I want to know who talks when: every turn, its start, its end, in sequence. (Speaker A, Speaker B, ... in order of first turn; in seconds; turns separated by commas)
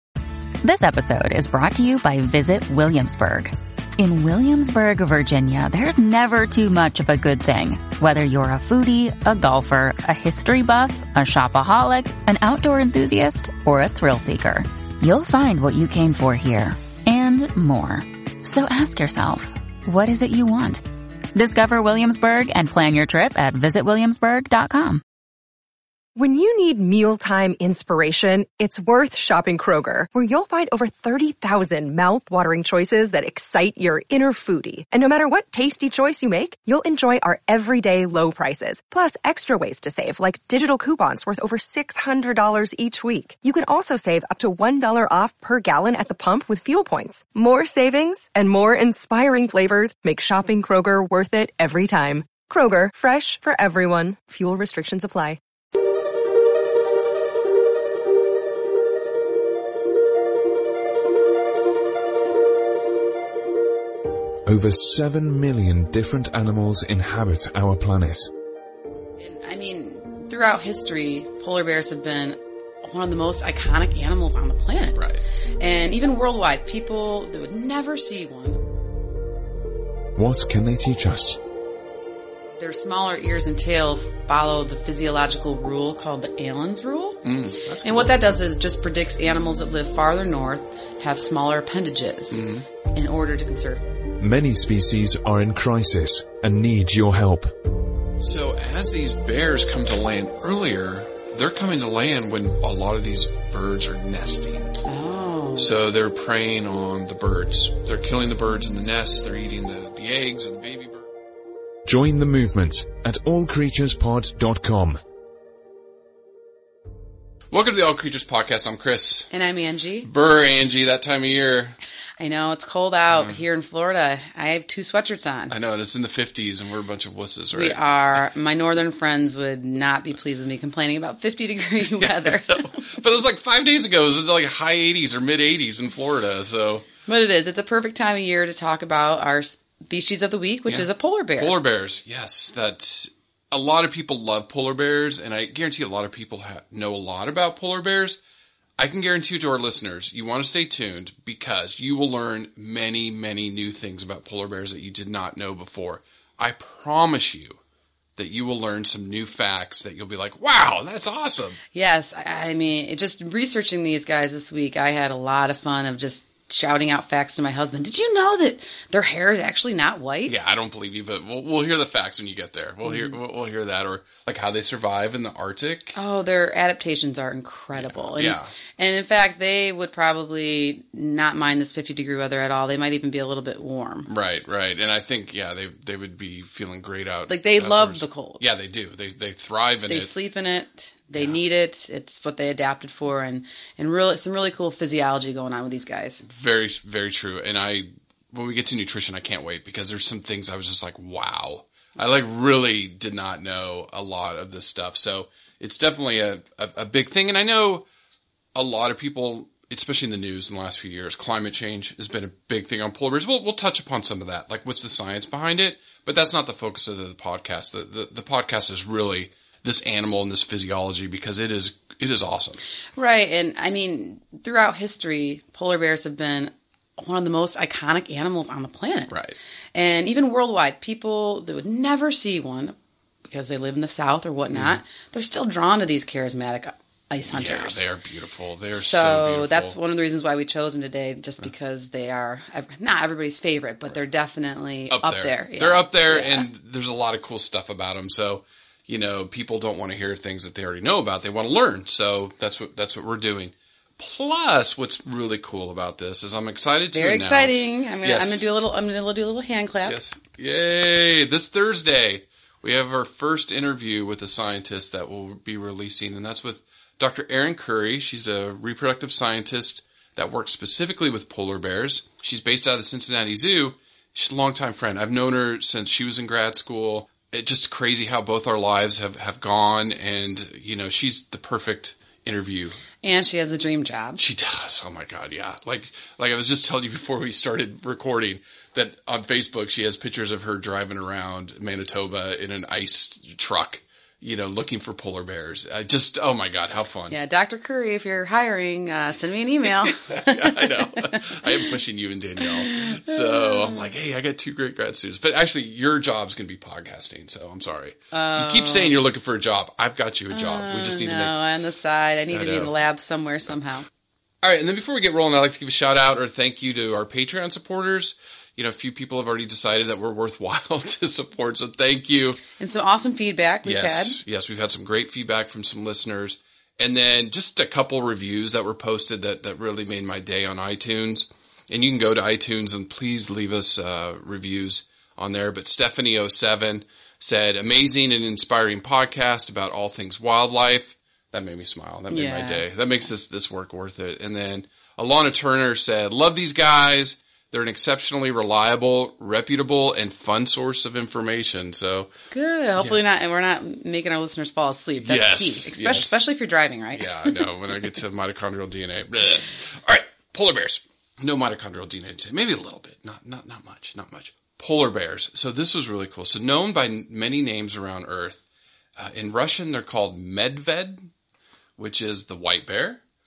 Speaker A: 0.6-25.0, Speaker B: 26.2-55.4, Speaker C: 64.5-68.3, Speaker D: 69.2-75.0, Speaker E: 74.9-75.2, Speaker D: 75.6-78.6, Speaker C: 80.2-81.4, Speaker D: 82.6-87.2, Speaker E: 87.2-88.2, Speaker D: 87.8-93.8, Speaker E: 92.3-92.7, Speaker C: 94.2-97.5, Speaker E: 98.2-104.7, Speaker D: 104.9-105.7, Speaker E: 105.6-111.1, Speaker C: 111.9-115.0, Speaker E: 117.5-119.3, Speaker D: 119.3-120.1, Speaker E: 120.0-121.8, Speaker D: 122.2-125.5, Speaker E: 125.5-128.2, Speaker D: 127.5-132.9, Speaker E: 131.9-136.9, Speaker D: 137.1-141.6, Speaker E: 140.7-148.2, Speaker E: 148.8-157.6, Speaker E: 158.2-161.6, Speaker D: 161.7-170.4, Speaker E: 170.3-176.0, Speaker D: 172.9-173.2, Speaker D: 176.0-184.1, Speaker E: 177.8-178.5, Speaker E: 184.1-190.2, Speaker D: 187.3-188.4, Speaker D: 189.9-196.2, Speaker E: 196.2-207.9, Speaker E: 208.6-222.6, Speaker D: 223.0-229.1, Speaker E: 229.1-229.4, Speaker D: 229.8-237.8, Speaker E: 234.5-234.8, Speaker E: 237.3-239.8, Speaker D: 238.7-246.5, Speaker E: 244.9-258.5, Speaker D: 256.9-260.0, Speaker E: 259.9-282.8, Speaker D: 283.0-284.2, Speaker E: 284.2-297.2, Speaker D: 297.1-301.7, Speaker E: 299.9-311.3, Speaker D: 302.4-303.9, Speaker D: 308.1-309.0, Speaker D: 310.3-313.9, Speaker E: 312.3-312.7, Speaker E: 314.4-322.4, Speaker D: 322.6-324.2, Speaker E: 323.6-352.1, Speaker D: 342.1-342.7, Speaker D: 352.3-357.4, Speaker E: 355.0-356.2, Speaker E: 356.9-368.4, Speaker E: 369.0-371.1, Speaker E: 371.8-373.0